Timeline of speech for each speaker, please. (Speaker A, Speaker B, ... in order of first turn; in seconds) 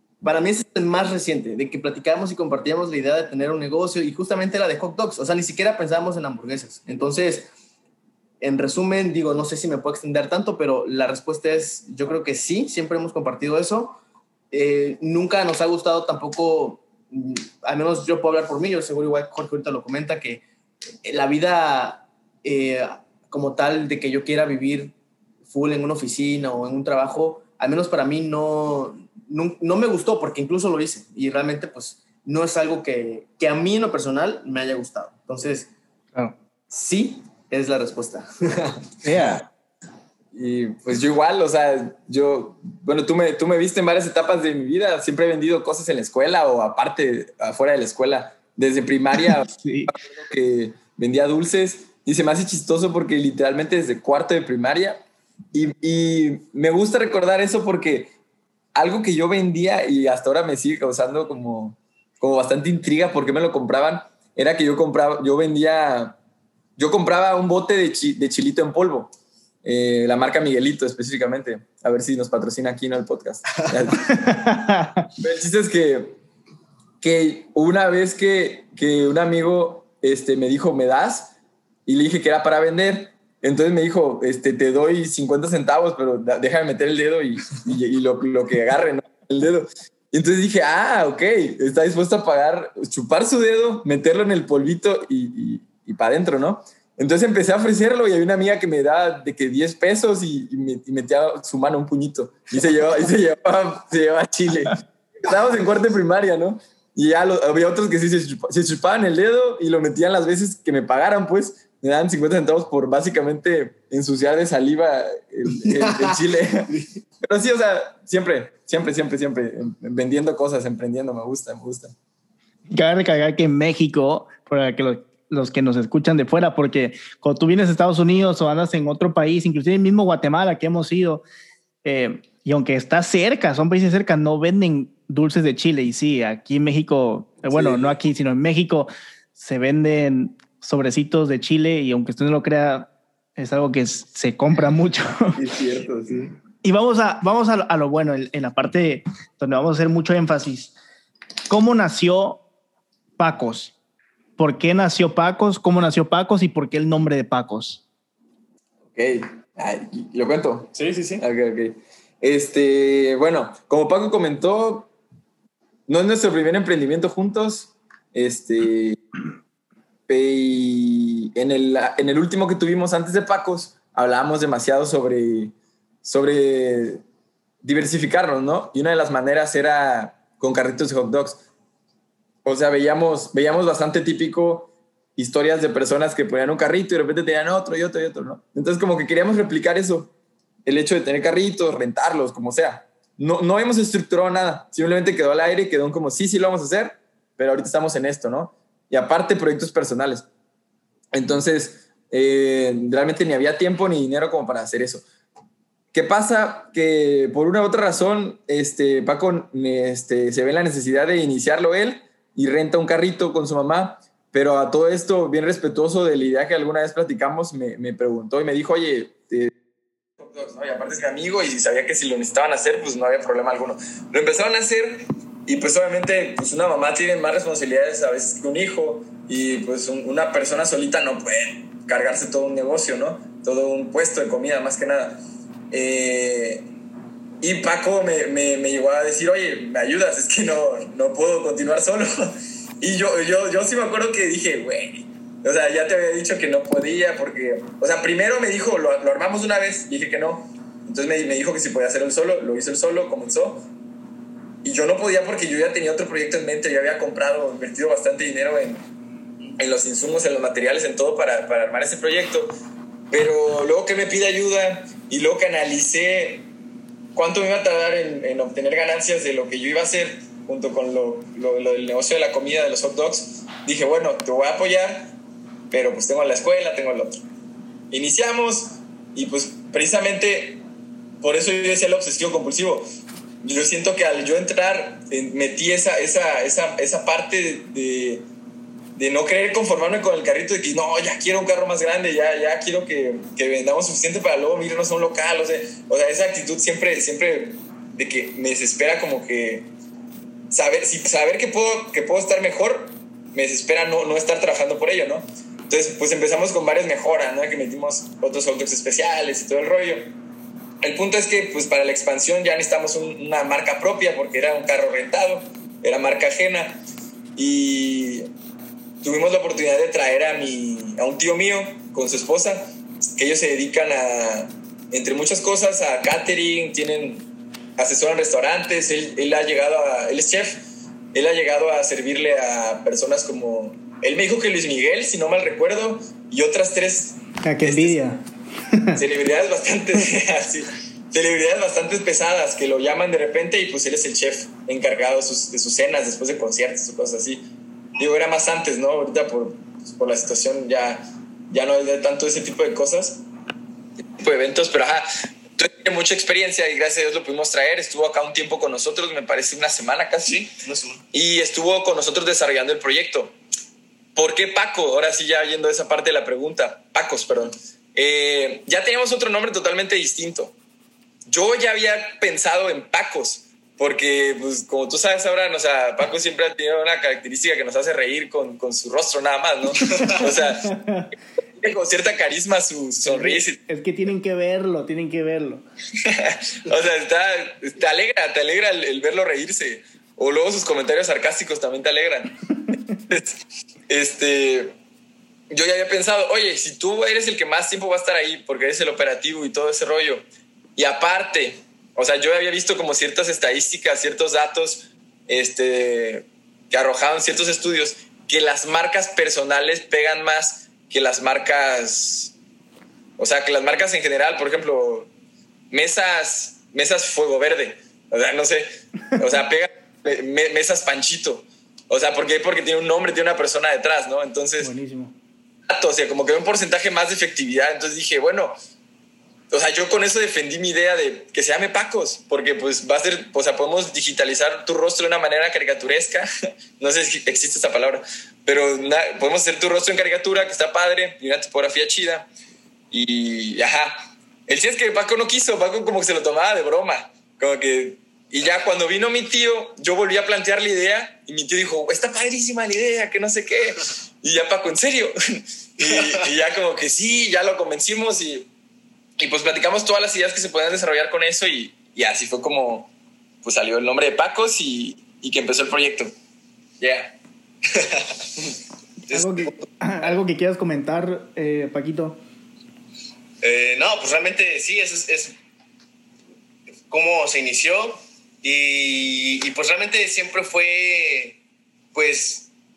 Speaker A: 0.2-7.5, 8.4-14.0, 14.5-20.4, 21.0-24.9, 25.5-35.7, 36.7-38.9, 115.7-116.2, 160.7-161.2, 360.2-361.0, 379.9-380.1, 455.8-456.2, 467.7-468.1, 469.1-469.6, 473.4-475.3, 476.9-481.4, 481.9-482.5
Speaker B: 39.0-39.5, 49.3-49.9, 74.1-75.1, 122.7-131.2, 131.8-145.4, 146.6-150.8, 151.5-152.4, 153.2-153.7, 154.4-157.8, 337.4-338.2, 338.7-339.0, 380.0-381.1, 383.1-385.6, 424.6-425.1, 469.1-472.2
Speaker C: 40.3-58.1, 58.7-66.2, 66.8-69.1, 69.6-74.1, 75.2-76.2, 77.0-81.3, 81.8-121.9, 137.5-137.9, 145.3-146.3, 158.9-164.9, 165.9-169.0, 170.1-177.0, 177.6-181.4, 182.4-190.1, 190.6-200.3, 201.1-205.0, 205.9-219.5, 220.2-236.6, 237.4-253.6, 254.6-258.8, 259.6-262.5, 263.1-266.4, 267.1-275.1, 275.7-277.2, 277.9-280.6, 281.2-282.8, 283.4-288.2, 288.9-299.7, 300.5-310.1, 310.8-316.8, 317.4-318.3, 319.0-327.2, 327.8-338.0, 338.9-347.4, 348.0-353.2, 354.2-360.4, 361.1-363.3, 364.1-370.5, 371.3-380.8, 381.6-383.6, 386.0-392.3, 393.1-394.7, 395.5-400.2, 400.8-412.3, 413.2-415.1, 415.7-424.7, 425.7-428.5, 429.5-442.3, 442.9-458.5, 459.2-462.9, 463.4-466.1, 466.8-467.1